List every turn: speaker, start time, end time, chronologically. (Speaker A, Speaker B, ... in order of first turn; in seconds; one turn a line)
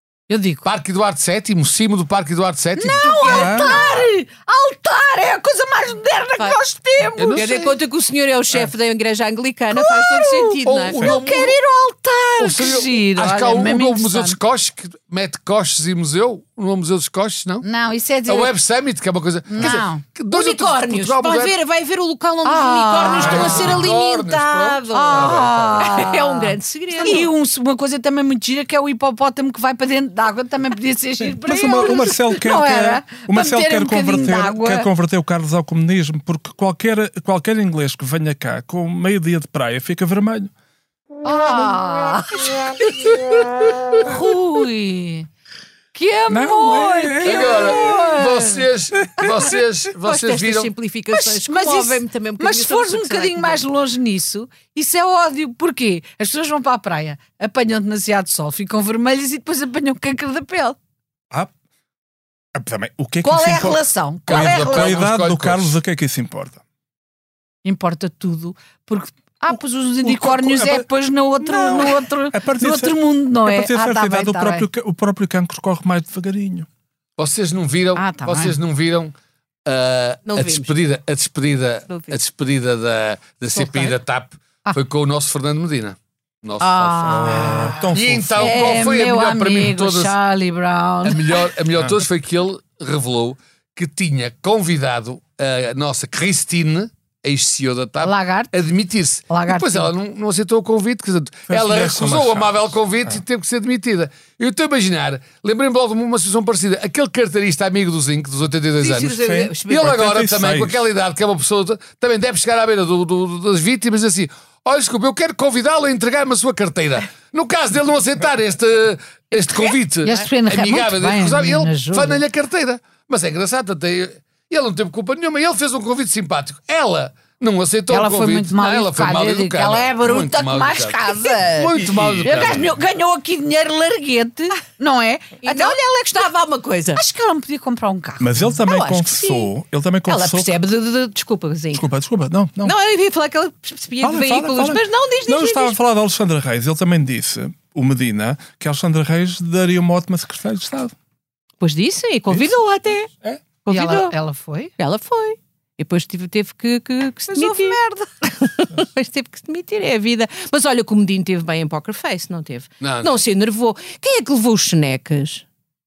Speaker A: 0.3-0.6
Speaker B: 0.6-4.0
Speaker A: 2.8-7.5
Speaker C: 3.0-3.7
Speaker D: 3.2-3.8
Speaker B: 7.2-7.8
Speaker C: 7.3-11.1
Speaker A: 9.7-14.4
Speaker B: 10.7-11.6
Speaker B: 12.4-17.7
Speaker A: 17.6-18.5
Speaker B: 18.3-21.6
Speaker A: 19.5-20.0
Speaker C: 20.3-27.3
Speaker A: 22.4-23.8
Speaker B: 23.1-26.1
Speaker D: 23.2-23.8
Speaker A: 24.9-34.9
Speaker D: 31.2-40.5
Speaker A: 41.2-43.0
Speaker B: 43.1-43.5
Speaker A: 44.0-45.3
Speaker A: 45.9-48.6
Speaker D: 46.3-48.1
Speaker B: 47.2-50.7
Speaker C: 50.0-53.6
Speaker A: 51.1-60.8
Speaker D: 62.5-66.6
Speaker A: 63.2-65.0
Speaker B: 64.3-65.7
Speaker A: 67.6-74.7
Speaker D: 69.5-70.9
Speaker D: 71.4-76.7
Speaker B: 77.2-79.1
Speaker A: 78.0-78.6
Speaker B: 79.7-90.1
Speaker C: 80.3-80.7
Speaker C: 81.9-82.2
Speaker A: 83.5-83.9
Speaker C: 86.6-87.8
Speaker A: 87.1-87.9
Speaker D: 87.1-88.8
Speaker A: 88.4-91.4
Speaker B: 91.0-132.8
Speaker A: 98.0-98.5
Speaker A: 99.3-99.9
Speaker D: 101.5-102.5
Speaker C: 108.8-110.0
Speaker D: 109.2-110.9
Speaker A: 120.0-122.2
Speaker A: 127.9-136.3
Speaker D: 131.8-132.6
Speaker C: 135.4-137.0
Speaker A: 136.9-138.6
Speaker D: 138.2-140.5
Speaker C: 138.7-139.5
Speaker C: 140.1-141.9
Speaker D: 141.7-142.8
Speaker C: 142.6-145.8
Speaker D: 144.0-150.9
Speaker C: 151.6-153.1
Speaker C: 153.6-154.2
Speaker A: 153.7-154.7
Speaker C: 154.8-165.4
Speaker A: 157.3-158.1
Speaker B: 162.8-163.1